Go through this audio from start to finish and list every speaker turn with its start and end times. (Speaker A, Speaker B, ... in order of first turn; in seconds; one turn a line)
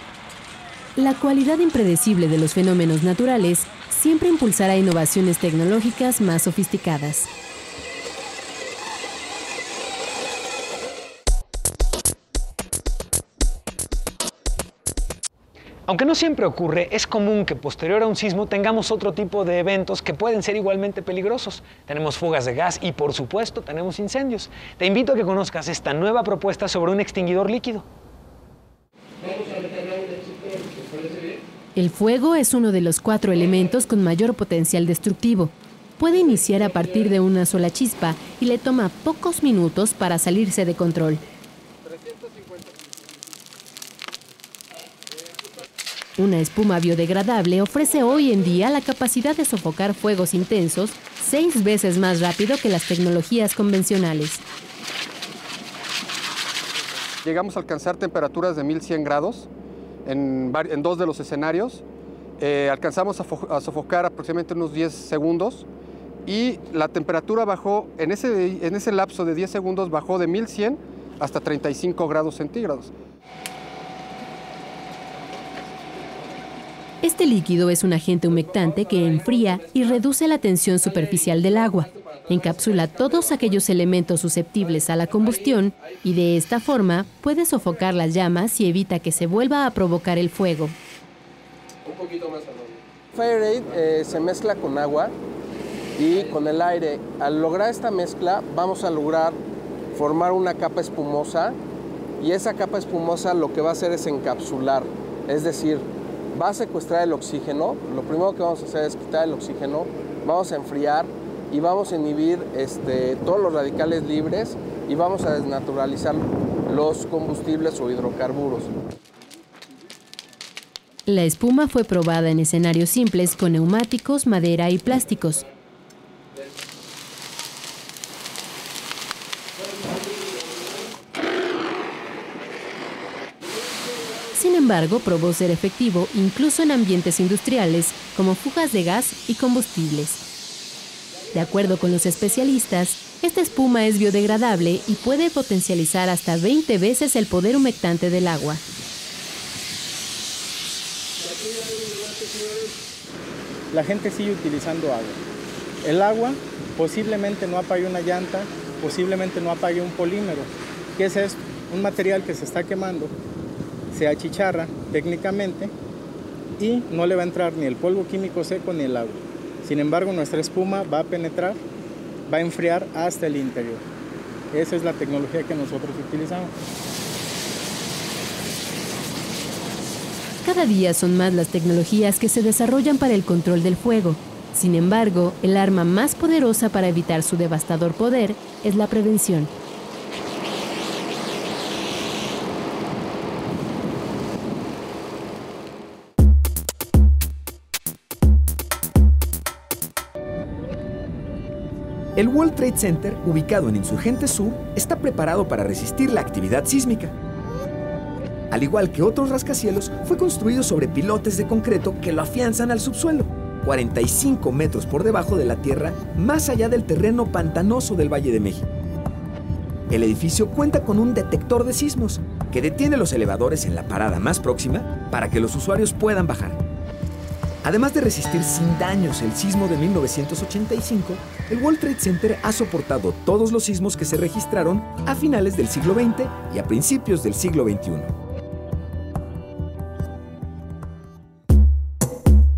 Speaker A: 1.0-7.3
Speaker B: 15.9-27.9
Speaker A: 31.7-41.2
Speaker A: 46.2-54.4
Speaker C: 57.2-59.5
Speaker C: 60.0-61.8
Speaker C: 62.4-65.7
Speaker C: 66.2-72.9
Speaker A: 77.0-90.8
Speaker C: 91.9-92.5
Speaker C: 93.1-95.1
Speaker C: 96.0-99.4
Speaker C: 99.9-101.6
Speaker C: 102.2-118.7
Speaker A: 121.1-125.4
Speaker A: 134.3-140.2
Speaker A: 141.3-148.6
Speaker D: 153.7-155.2
Speaker D: 155.8-163.1
Speaker D: 163.9-165.7
Speaker D: 166.6-171.6
Speaker D: 172.3-173.8
Speaker D: 174.5-176.5
Speaker A: 180.4-189.5
Speaker E: 202.2-207.1
Speaker E: 208.5-218.7
Speaker E: 219.9-226.6
Speaker E: 227.6-238.1